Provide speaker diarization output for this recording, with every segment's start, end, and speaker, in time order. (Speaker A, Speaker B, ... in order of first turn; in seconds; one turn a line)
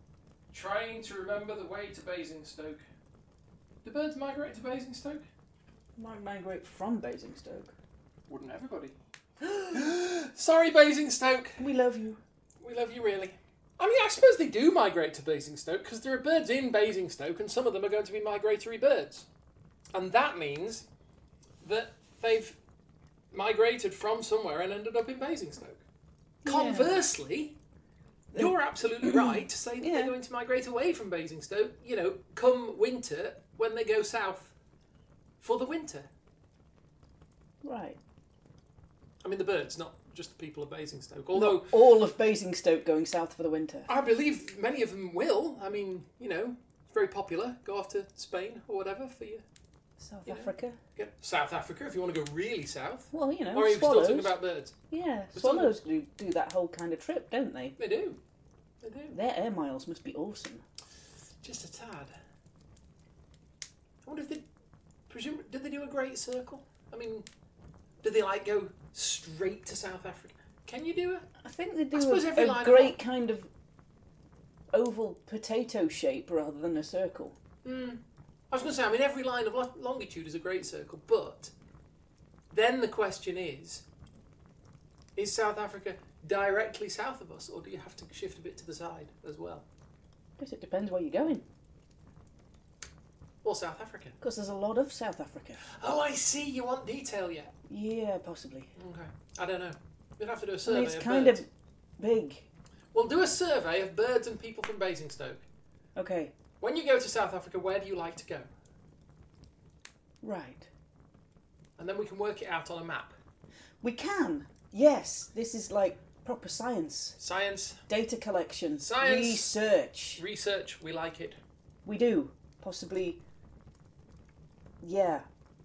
Speaker A: 0.5-2.8
Speaker A: 3.8-5.3
Speaker B: 6.0-7.7
Speaker A: 8.3-8.9
Speaker B: 9.4-9.8
Speaker A: 9.7-11.6
Speaker B: 11.6-12.2
Speaker A: 12.6-19.3
Speaker A: 19.9-20.9
Speaker A: 21.6-22.6
Speaker A: 23.3-25.8
Speaker B: 26.4-27.1
Speaker A: 26.4-27.6
Speaker B: 28.3-30.1
Speaker A: 28.3-34.5
Speaker A: 35.4-36.1
Speaker B: 37.6-38.0
Speaker A: 39.2-41.8
Speaker B: 41.3-43.9
Speaker A: 43.9-49.4
Speaker B: 50.0-50.8
Speaker A: 50.3-54.8
Speaker B: 53.1-54.4
Speaker B: 54.9-57.8
Speaker A: 55.3-55.8
Speaker A: 57.8-58.2
Speaker A: 58.8-59.2
Speaker B: 59.1-60.6
Speaker A: 61.4-62.1
Speaker A: 64.0-64.5
Speaker A: 65.1-67.3
Speaker A: 68.0-71.3
Speaker B: 71.4-73.5
Speaker A: 71.9-73.0
Speaker B: 74.7-77.4
Speaker A: 77.6-81.5
Speaker A: 82.5-83.8
Speaker A: 85.2-89.7
Speaker B: 90.4-91.5
Speaker A: 93.4-94.2
Speaker B: 94.2-95.7
Speaker A: 95.7-97.5
Speaker B: 97.7-98.7
Speaker A: 98.8-101.4
Speaker B: 100.7-101.5
Speaker B: 102.0-102.5
Speaker A: 102.9-105.4
Speaker B: 106.0-106.3
Speaker A: 106.6-108.5
Speaker B: 110.2-110.7
Speaker A: 111.8-113.2
Speaker B: 113.8-117.2
Speaker A: 117.2-117.8
Speaker B: 117.9-120.2
Speaker A: 118.8-119.5
Speaker A: 120.2-121.4
Speaker B: 121.8-123.2
Speaker B: 124.8-125.3